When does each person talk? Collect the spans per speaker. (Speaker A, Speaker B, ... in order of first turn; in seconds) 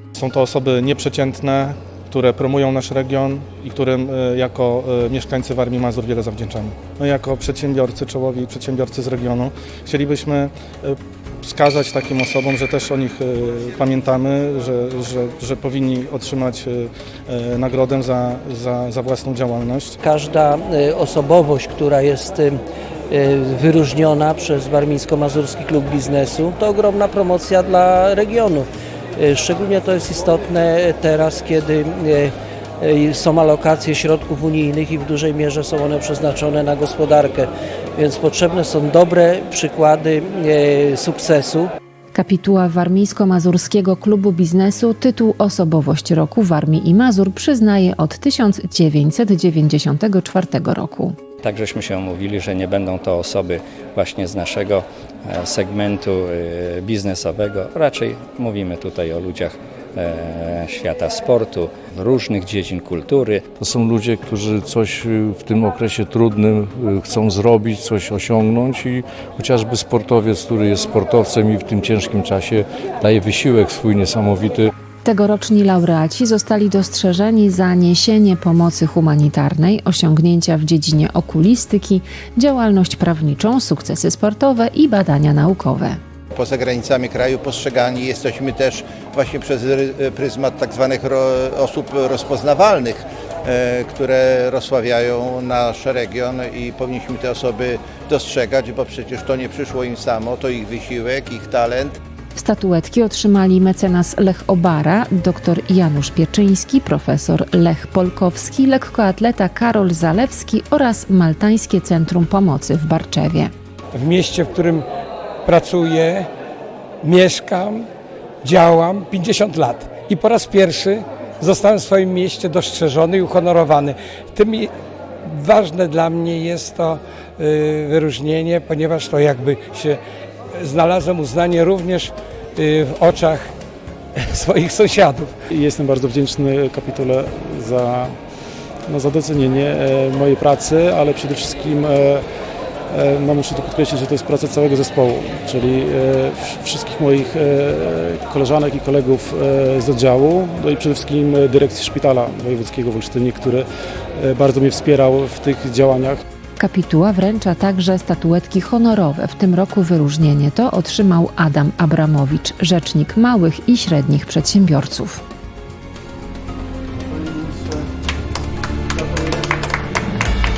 Speaker A: 0.1-20.0
Speaker B: 20.0-41.7
Speaker C: 42.1-51.1, 75.0-86.0, 102.3-113.5, 156.6-165.2
Speaker D: 51.4-63.5
Speaker E: 63.5-74.7
Speaker F: 86.3-102.0
Speaker G: 113.9-114.8, 115.5-116.3, 117.0-117.8, 118.4-124.7, 125.2-130.0, 130.5-133.5, 134.2-135.3
Speaker H: 135.5-138.2, 138.9-142.2, 142.9-156.2